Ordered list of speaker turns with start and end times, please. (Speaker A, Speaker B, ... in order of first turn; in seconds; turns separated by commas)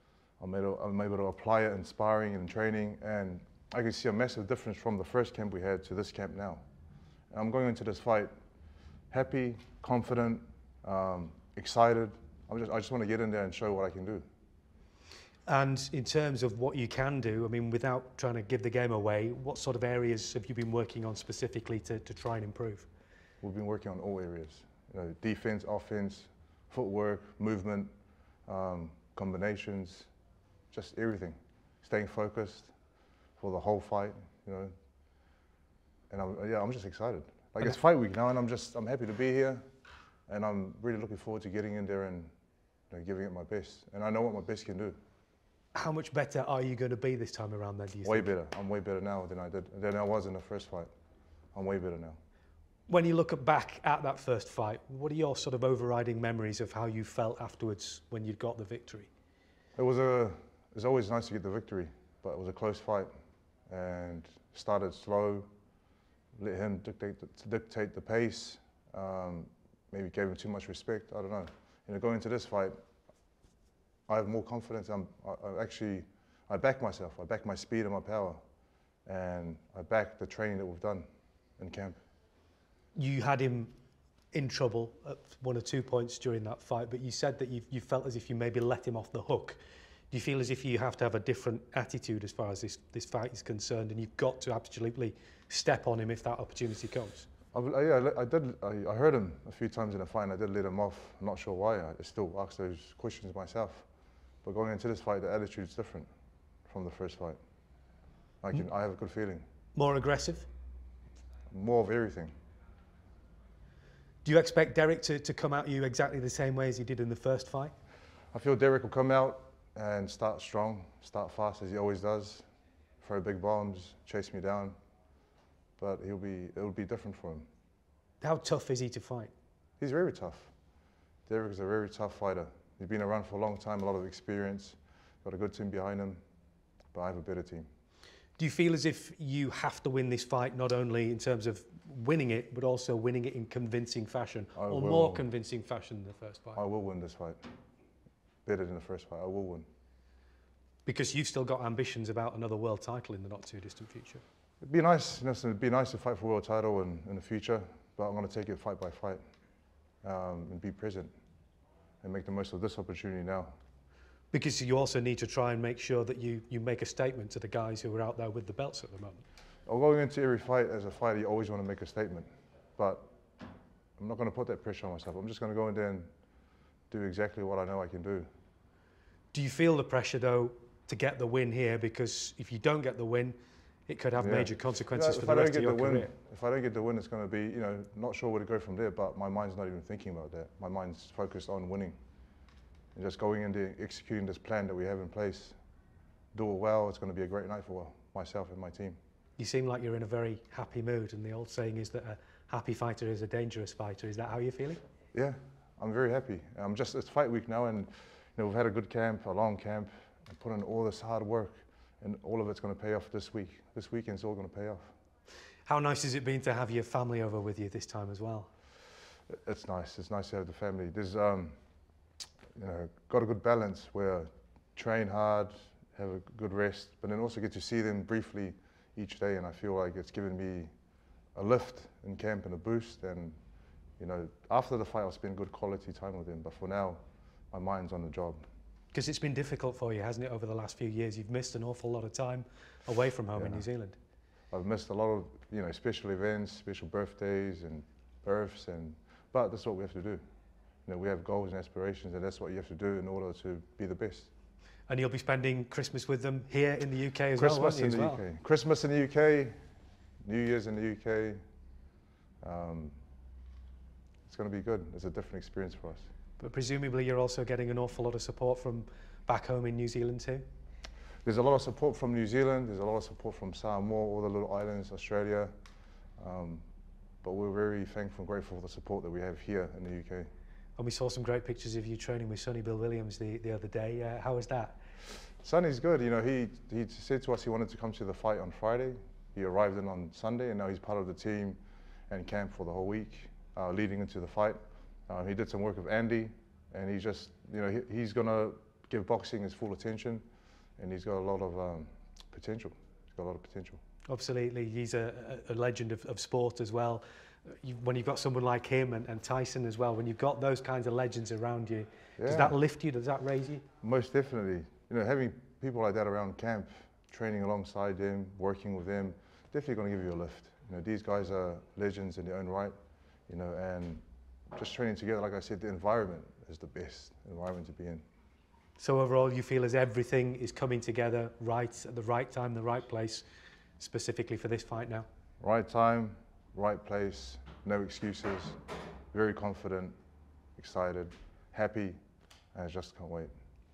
Speaker A: 0.4-6.6, Speaker A: 7.3-8.3, Speaker A: 9.1-14.2, Speaker B: 15.4-22.9, Speaker A: 23.4-27.9, Speaker A: 28.5-30.1, Speaker A: 30.7-32.7, Speaker A: 33.4-34.7, Speaker A: 36.1-39.6, Speaker A: 40.3-42.3, Speaker A: 42.9-45.0, Speaker B: 45.7-48.3, Speaker A: 48.0-50.9, Speaker A: 51.5-52.2, Speaker B: 52.9-59.1, Speaker A: 59.8-63.1, Speaker A: 63.7-65.5, Speaker A: 66.4-72.8, Speaker A: 74.1-78.4, Speaker A: 79.0-81.0, Speaker A: 81.6-82.0, Speaker B: 83.0-83.7, Speaker B: 84.3-89.6, Speaker B: 90.1-97.3, Speaker A: 97.5-103.8, Speaker A: 104.4-106.1, Speaker A: 106.7-107.4, Speaker A: 108.4-109.4, Speaker B: 109.8-110.5, Speaker A: 111.5-112.3, Speaker B: 114.2-117.7, Speaker A: 118.3-122.4, Speaker A: 123.0-124.8, Speaker A: 125.8-127.5, Speaker B: 128.2-129.3, Speaker A: 129.8-130.5, Speaker A: 131.3-136.2, Speaker A: 136.9-137.7, Speaker B: 138.4-146.6, Speaker A: 144.6-145.2, Speaker A: 146.6-147.4, Speaker A: 148.4-149.7, Speaker B: 150.8-154.2, Speaker A: 154.6-159.2, Speaker A: 160.0-161.1, Speaker A: 162.0-163.5, Speaker B: 164.3-169.2, Speaker A: 169.7-173.1, Speaker A: 174.0-176.1, Speaker A: 176.9-178.3, Speaker B: 179.3-186.1, Speaker A: 184.2-192.0, Speaker A: 192.9-195.6, Speaker A: 196.3-199.0, Speaker B: 199.4-204.8, Speaker A: 205.1-214.9, Speaker B: 215.7-218.5, Speaker A: 219.3-221.5, Speaker A: 222.6-230.7, Speaker A: 231.3-233.4, Speaker A: 234.0-237.0, Speaker A: 237.5-238.4, Speaker B: 238.9-244.0, Speaker A: 243.3-243.7, Speaker A: 244.5-250.2, Speaker A: 250.9-254.3, Speaker B: 254.9-258.2, Speaker A: 257.4-259.6, Speaker A: 260.2-261.4, Speaker A: 262.4-263.0, Speaker A: 264.3-266.1, Speaker B: 266.4-270.4, Speaker A: 271.2-275.5, Speaker A: 276.2-276.6, Speaker A: 277.2-280.3, Speaker B: 280.8-284.8, Speaker A: 285.4-300.2, Speaker A: 300.8-303.8, Speaker B: 304.1-313.6, Speaker A: 312.2-312.6, Speaker A: 313.8-322.7, Speaker A: 323.3-324.0, Speaker A: 324.5-328.0, Speaker B: 328.8-333.2, Speaker B: 333.8-335.1, Speaker A: 335.4-338.6, Speaker A: 339.1-339.9, Speaker A: 340.6-342.0, Speaker A: 342.5-343.3